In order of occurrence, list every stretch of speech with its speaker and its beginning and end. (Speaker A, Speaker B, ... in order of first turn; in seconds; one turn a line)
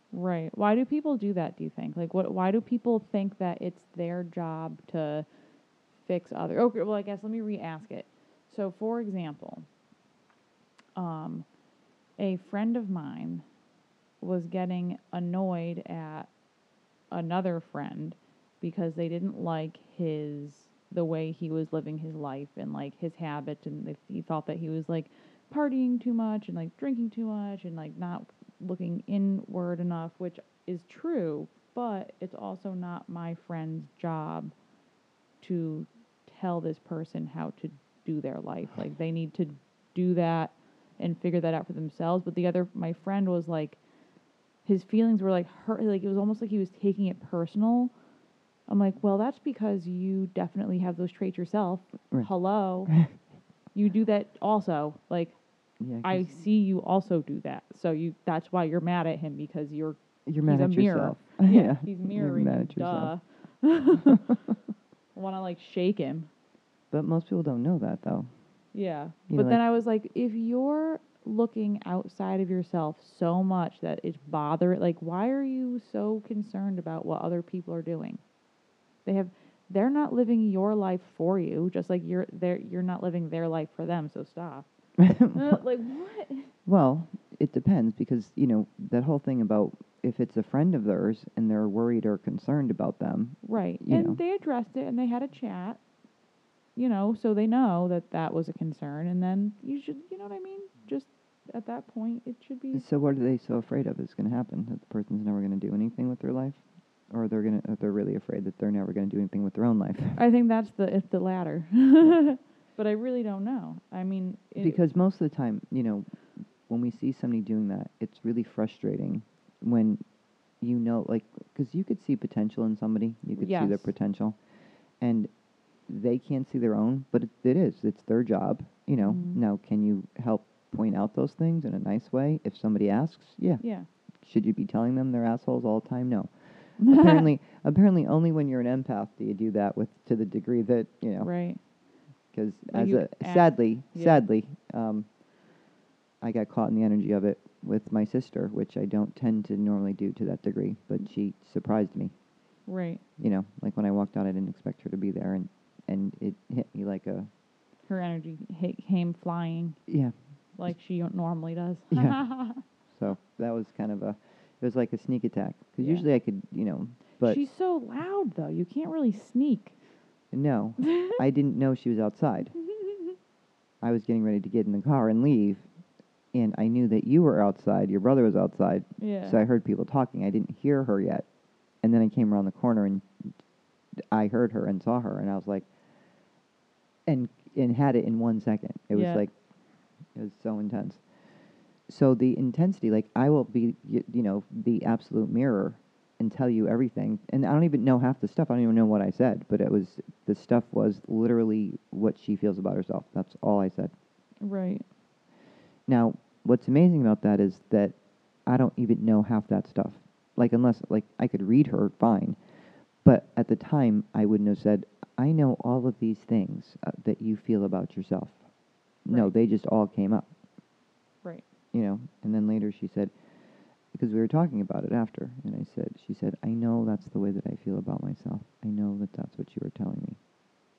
Speaker A: 0.1-5.3
Speaker A: 6.0-9.7
Speaker A: 11.0-11.5
Speaker A: 12.2-13.4
Speaker A: 14.2-16.3
Speaker A: 17.1-34.5
Speaker A: 35.4-43.8
Speaker A: 44.6-47.9
Speaker A: 48.7-52.9
Speaker B: 52.9-53.1
Speaker A: 53.7-55.4
Speaker B: 55.8-56.3
Speaker A: 56.0-64.3
Speaker B: 60.3-63.1
Speaker A: 65.2-66.3
Speaker B: 66.9-68.3
Speaker A: 68.7-78.2
Speaker B: 69.3-69.6
Speaker A: 79.0-84.7
Speaker B: 85.0-85.6
Speaker A: 85.3-86.5
Speaker B: 86.7-94.2
Speaker A: 93.4-95.8
Speaker A: 96.8-102.8
Speaker B: 102.7-110.2
Speaker A: 110.2-114.8
Speaker B: 114.6-116.2
Speaker B: 116.7-120.0
Speaker B: 120.6-124.4
Speaker A: 123.4-123.9
Speaker B: 125.0-125.3
Speaker B: 125.9-133.6
Speaker A: 129.0-129.4
Speaker A: 133.6-133.9
Speaker B: 134.2-141.3
Speaker A: 136.8-137.3
Speaker A: 141.2-141.6
Speaker B: 142.3-145.1
Speaker A: 142.7-144.2
Speaker B: 146.2-152.1
Speaker A: 152.7-153.0
Speaker B: 153.2-157.3
Speaker A: 157.9-159.8
Speaker B: 159.9-160.2
Speaker A: 160.6-162.6
Speaker B: 161.9-162.2
Speaker B: 162.9-167.4
Speaker A: 165.8-166.1
Speaker A: 167.2-169.8
Speaker B: 170.3-172.5
Speaker A: 170.8-171.2
Speaker A: 172.6-173.2
Speaker B: 173.8-175.7
Speaker B: 176.3-181.3
Speaker A: 179.0-179.4
Speaker B: 181.8-183.1
Speaker B: 184.1-185.7
Speaker B: 187.1-189.3
Speaker A: 188.9-189.2
Speaker B: 190.2-191.0
Speaker B: 191.9-203.9
Speaker A: 204.4-204.8
Speaker B: 205.9-212.4
Speaker B: 213.0-218.4
Speaker B: 219.1-220.3
Speaker B: 221.7-223.1
Speaker B: 223.9-230.2